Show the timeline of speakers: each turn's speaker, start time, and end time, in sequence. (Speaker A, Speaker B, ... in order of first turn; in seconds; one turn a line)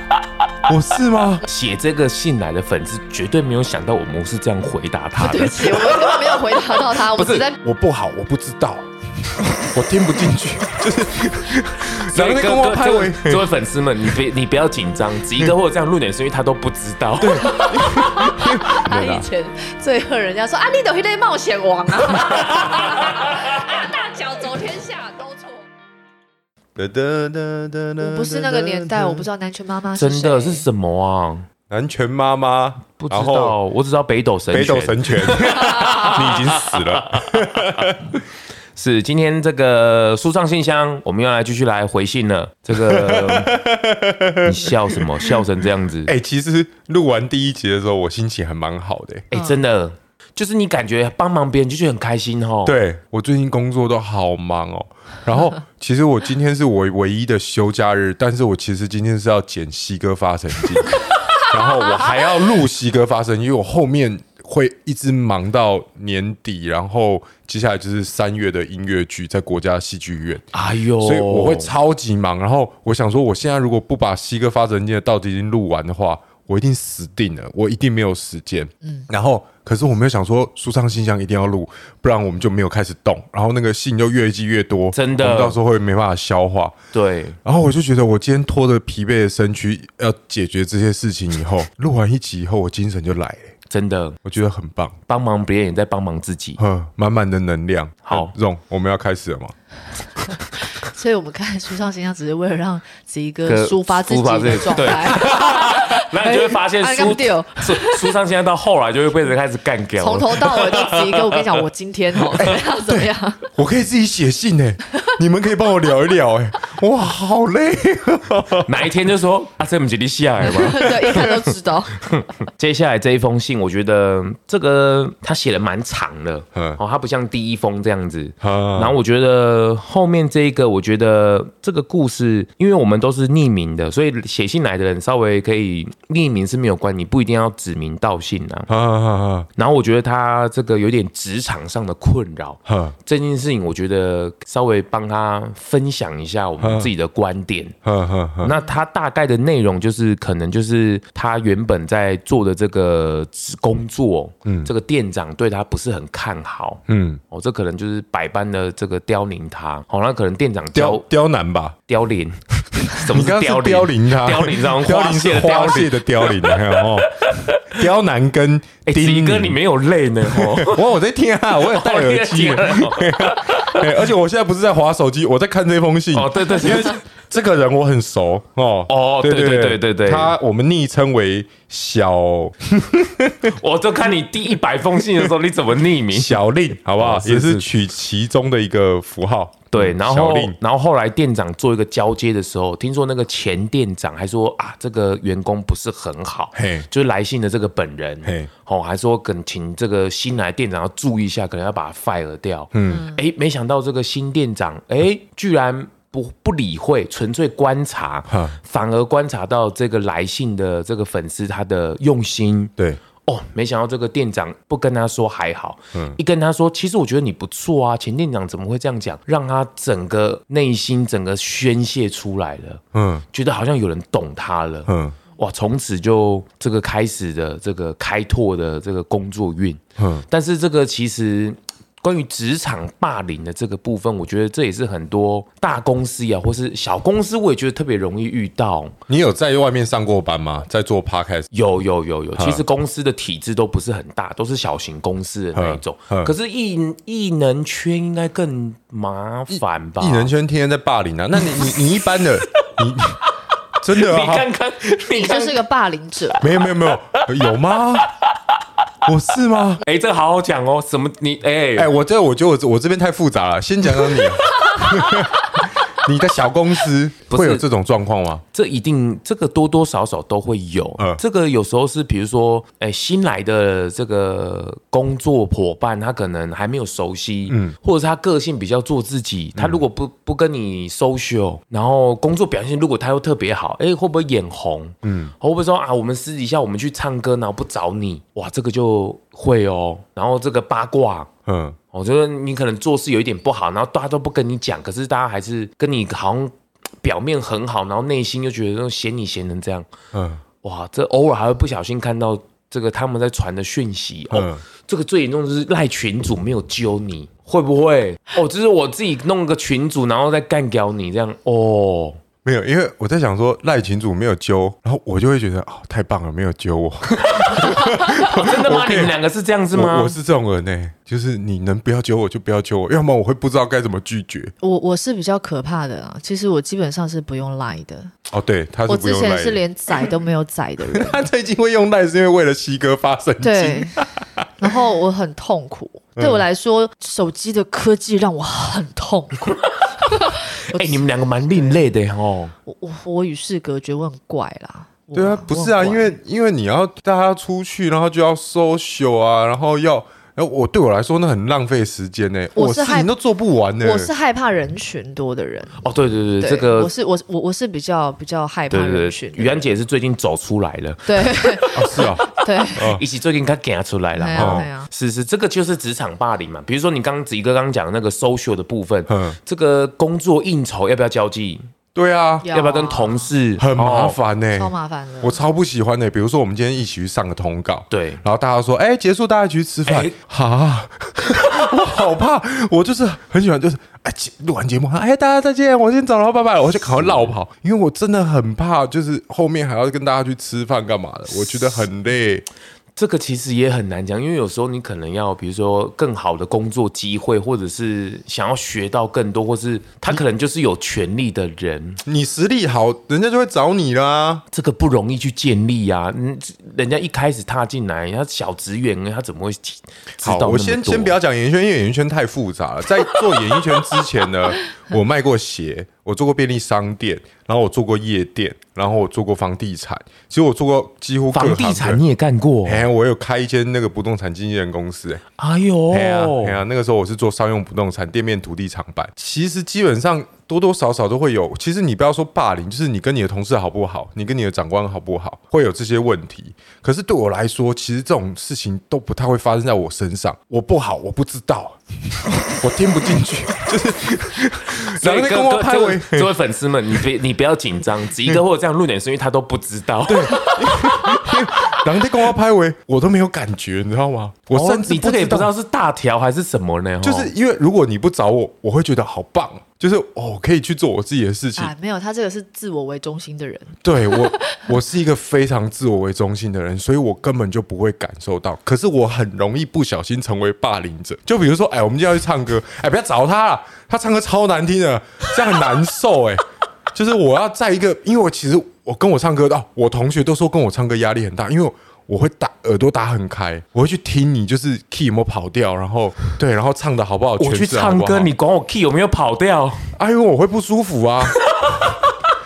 Speaker A: 0.7-1.4
Speaker B: 1.4-6.4
Speaker C: 5.2-7.6
Speaker B: 6.9-7.5
Speaker A: 7.6-13.5
Speaker B: 12.0-17.6
Speaker A: 17.2-19.2
Speaker C: 17.4-25.7
Speaker A: 26.8-29.2
Speaker C: 28.0-30.6
Speaker B: 29.9-31.4
Speaker A: 31.7-33.6
Speaker B: 33.0-37.7
Speaker A: 34.5-38.2
Speaker B: 38.7-43.6
Speaker A: 42.7-45.4
Speaker B: 44.4-46.1
Speaker A: 46.0-49.3
Speaker B: 49.3-52.8
Speaker A: 52.6-70.5
Speaker B: 70.5-71.7
Speaker A: 71.0-86.8
Speaker B: 84.9-85.6
Speaker B: 86.9-87.4
Speaker A: 87.4-93.5
Speaker B: 93.7-94.2
Speaker A: 94.2-94.9
Speaker B: 95.1-96.6
Speaker A: 96.6-99.5
Speaker B: 98.0-98.3
Speaker C: 100.8-108.1
Speaker B: 103.5-111.6
Speaker C: 110.0-113.4
Speaker B: 112.3-112.5
Speaker A: 112.4-118.9
Speaker B: 118.6-121.4
Speaker C: 120.4-122.1
Speaker B: 122.0-138.7
Speaker A: 128.4-129.0
Speaker A: 138.7-139.5
Speaker B: 139.6-147.7
Speaker A: 142.7-142.9
Speaker A: 146.6-146.9
Speaker A: 147.8-148.5
Speaker B: 148.4-161.0
Speaker A: 154.4-154.7
Speaker A: 156.9-157.2
Speaker A: 160.7-161.8
Speaker B: 161.9-167.8
Speaker A: 162.9-169.6
Speaker B: 168.8-170.9
Speaker A: 170.2-183.5
Speaker B: 171.5-173.9
Speaker B: 176.1-177.0
Speaker B: 178.9-180.3
Speaker B: 183.5-187.7
Speaker A: 185.0-185.3
Speaker A: 186.1-190.6
Speaker B: 189.7-212.7
Speaker A: 196.5-196.9
Speaker A: 198.2-198.5
Speaker A: 202.7-203.1
Speaker A: 208.3-208.6
Speaker B: 213.2-222.8
Speaker A: 222.9-223.2
Speaker B: 223.3-238.9
Speaker A: 224.9-225.2
Speaker A: 230.0-230.2
Speaker A: 239.1-241.5
Speaker B: 241.5-250.3
Speaker A: 242.3-242.6
Speaker A: 245.5-246.3
Speaker A: 249.5-253.2
Speaker B: 251.6-252.7
Speaker A: 253.8-254.5
Speaker B: 253.8-255.6
Speaker C: 255.1-256.4
Speaker A: 256.4-258.1
Speaker B: 256.4-257.8
Speaker A: 259.0-259.8
Speaker B: 259.8-261.9
Speaker A: 261.8-268.4
Speaker B: 267.3-267.6
Speaker B: 268.5-291.3
Speaker A: 277.5-277.8
Speaker A: 279.6-279.8
Speaker A: 285.0-285.3
Speaker A: 291.4-291.8
Speaker B: 291.9-299.9
Speaker A: 300.1-300.4
Speaker B: 300.6-312.2
Speaker A: 304.3-304.6
Speaker A: 312.4-319.1
Speaker B: 317.1-320.1
Speaker A: 319.7-324.5
Speaker C: 324.6-328.1
Speaker A: 328.3-329.6
Speaker C: 328.9-331.2
Speaker A: 330.9-334.2
Speaker C: 333.4-334.0
Speaker C: 334.6-341.0
Speaker A: 336.1-336.4
Speaker B: 339.6-342.5
Speaker C: 341.5-341.8
Speaker C: 342.6-346.1
Speaker A: 345.1-354.1
Speaker C: 352.6-353.1
Speaker C: 353.8-355.8
Speaker B: 355.8-356.9
Speaker C: 356.4-359.6
Speaker B: 358.7-371.6
Speaker C: 361.1-362.9
Speaker A: 361.7-363.0
Speaker C: 364.1-364.9
Speaker A: 364.3-364.6
Speaker A: 369.1-369.4
Speaker A: 371.9-372.5
Speaker C: 372.4-373.3
Speaker B: 372.5-374.2
Speaker A: 373.6-392.4
Speaker C: 374.5-375.4
Speaker B: 377.9-378.2
Speaker B: 379.9-380.1
Speaker B: 387.0-387.4
Speaker B: 392.9-402.0
Speaker A: 402.0-404.4
Speaker B: 404.5-411.2
Speaker A: 410.2-422.0
Speaker B: 421.3-422.8
Speaker A: 422.6-425.2
Speaker B: 425.4-426.6
Speaker A: 425.9-446.3
Speaker B: 444.8-451.8
Speaker A: 450.1-455.5
Speaker B: 454.5-457.3
Speaker A: 457.0-461.7
Speaker C: 461.6-464.7
Speaker A: 463.8-488.3
Speaker B: 487.4-489.9
Speaker A: 489.9-491.4
Speaker B: 491.4-492.3